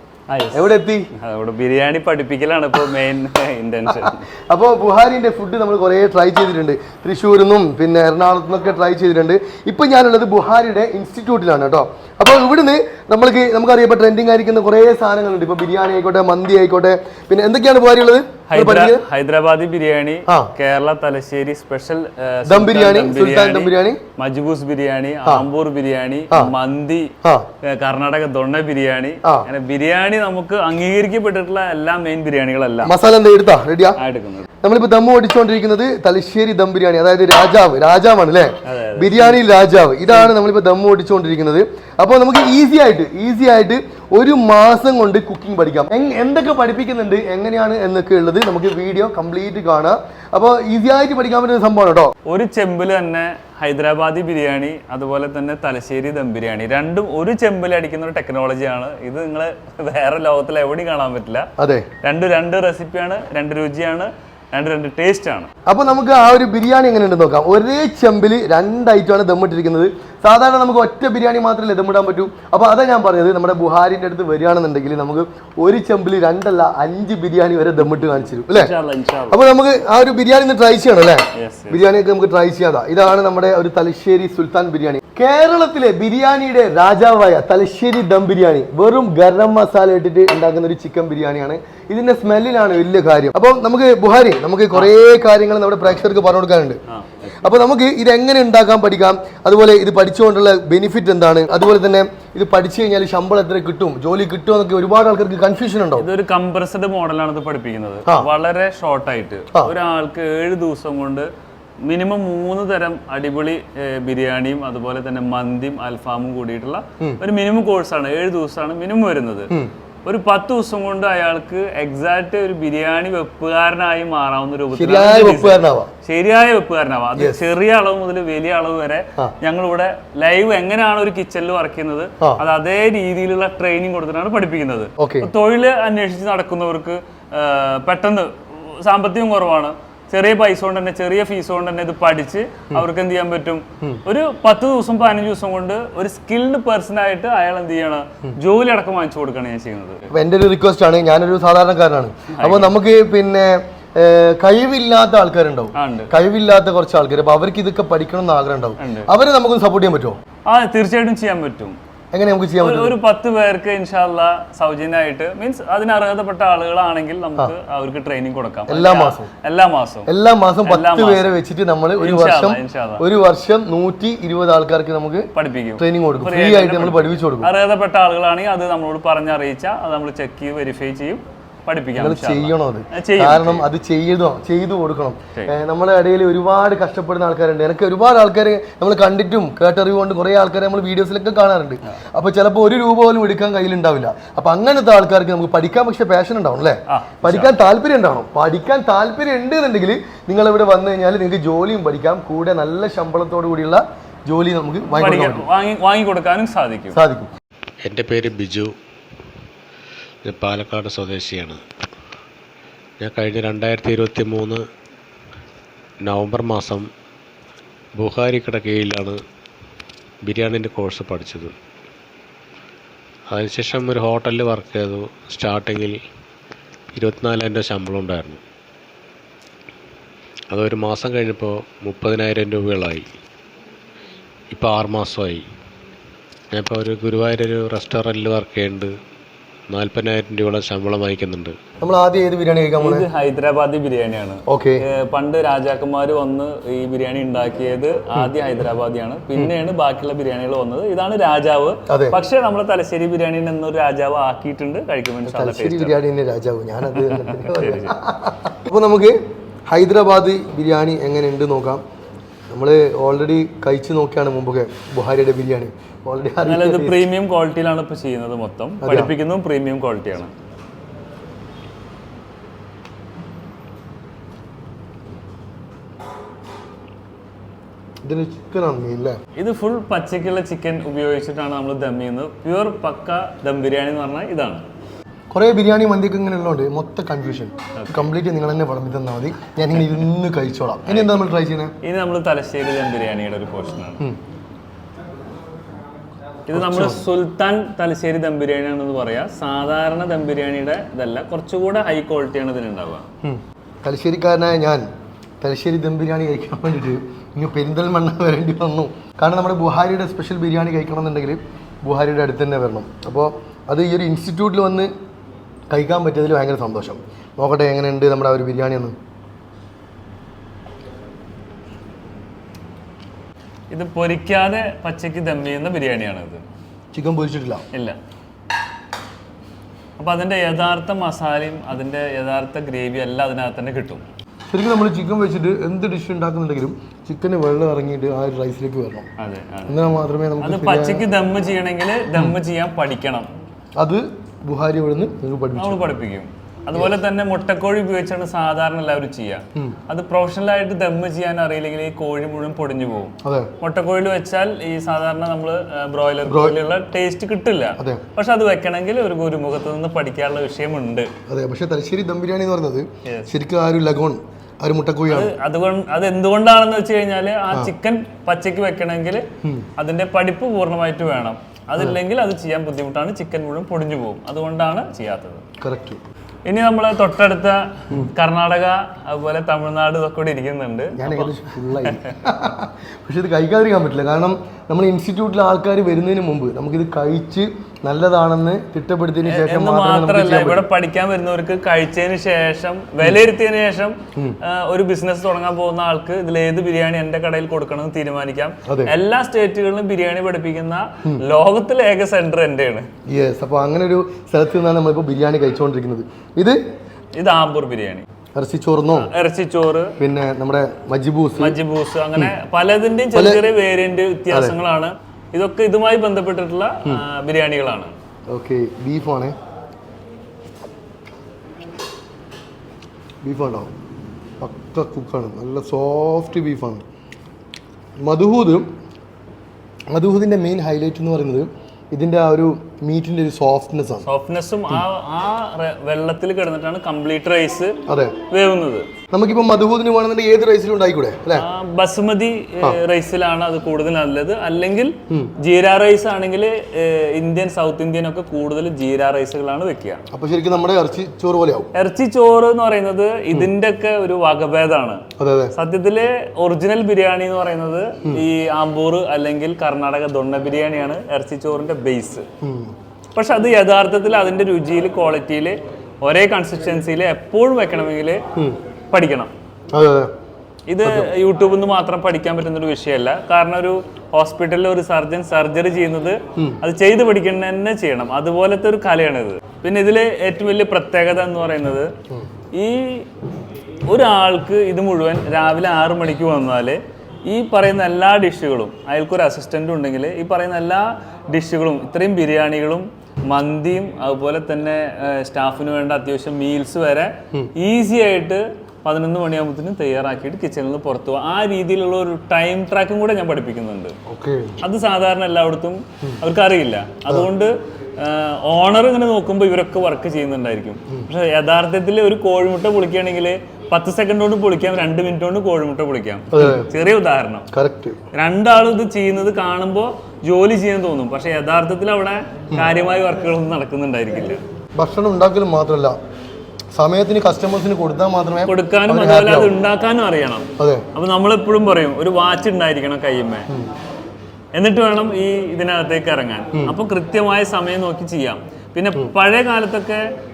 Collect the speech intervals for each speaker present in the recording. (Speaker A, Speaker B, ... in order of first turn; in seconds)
Speaker A: 0.3-4.2, 18.5-27.1, 27.6-32.9, 34.0-34.5, 38.6-39.5, 52.3-61.5, 62.0-65.5, 78.5-79.4, 81.4-81.9, 96.9-97.6, 106.0-111.3, 111.8-119.5, 120.0-150.1, 152.3-152.7, 155.8-156.1, 158.8-159.1, 160.5-161.8, 162.6-170.1, 170.6-171.3, 172.0-173.0, 175.3-183.6, 196.9-197.5, 204.9-207.0, 242.8-256.0, 256.9-257.9, 266.5-270.3, 279.4-284.6, 287.8-288.1, 290.9-291.2, 291.8-294.0, 296.5-303.0, 323.7-326.4, 330.0-334.0, 339.2-339.8, 340.4-343.3, 345.6-361.1, 363.1-363.3, 365.1-369.2, 369.8-375.4, 376.4-381.4, 389.2-402.9, 407.1-408.1, 408.9-409.9, 411.4-417.9, 434.0-437.8, 438.3-438.9, 441.4-450.0, 451.8-455.0, 455.5-462.2, 463.1-468.2, 468.9-469.3, 470.7-481.9, 482.5-483.1, 483.9-503.9, 504.6-517.5, 518.1-524.4, 528.5-533.5, 534.5-540.0
Speaker B: 0.5-1.1, 3.9-19.0, 22.5-24.0, 32.8-34.0, 34.6-52.1, 61.6-61.9, 65.7-78.7, 79.3-96.8, 97.4-106.1, 124.7-125.9, 135.0-135.3, 150.1-160.2, 162.1-162.9, 168.7-169.3, 170.1-177.5, 182.0-205.4, 206.9-207.3, 241.8-243.1, 244.5-244.8, 251.9-252.2, 255.3-259.2, 259.7-261.8, 262.5-267.0, 268.8-269.1, 278.0-279.2, 285.3-291.7, 296.5-297.0, 303.2-304.8, 305.4-314.9, 315.7-318.9, 326.9-327.6, 334.5-339.1, 339.7-341.0, 343.8-345.8, 353.2-353.5, 356.2-356.6, 361.3-365.3, 375.6-376.0, 380.9-390.6, 403.1-406.6, 408.4-409.1, 410.0-411.6, 413.1-413.4, 414.3-414.6, 418.3-419.3, 423.2-423.7, 424.4-426.8, 428.0-428.7, 429.9-434.1, 437.9-438.1, 439.1-441.4, 450.1-451.7, 455.2-455.5, 462.4-462.7, 469.7-470.1, 470.8-471.1, 504.1-504.6, 516.3-516.7, 517.5-518.0, 524.8-526.0, 526.8-529.5, 530.6-530.9
Speaker C: 207.8-208.7, 210.2-211.6, 213.0-214.6, 216.1-216.9, 218.0-219.2, 220.2-221.5, 223.3-226.0, 226.9-228.4, 230.5-233.1, 234.5-235.4, 236.5-238.9, 239.7-241.5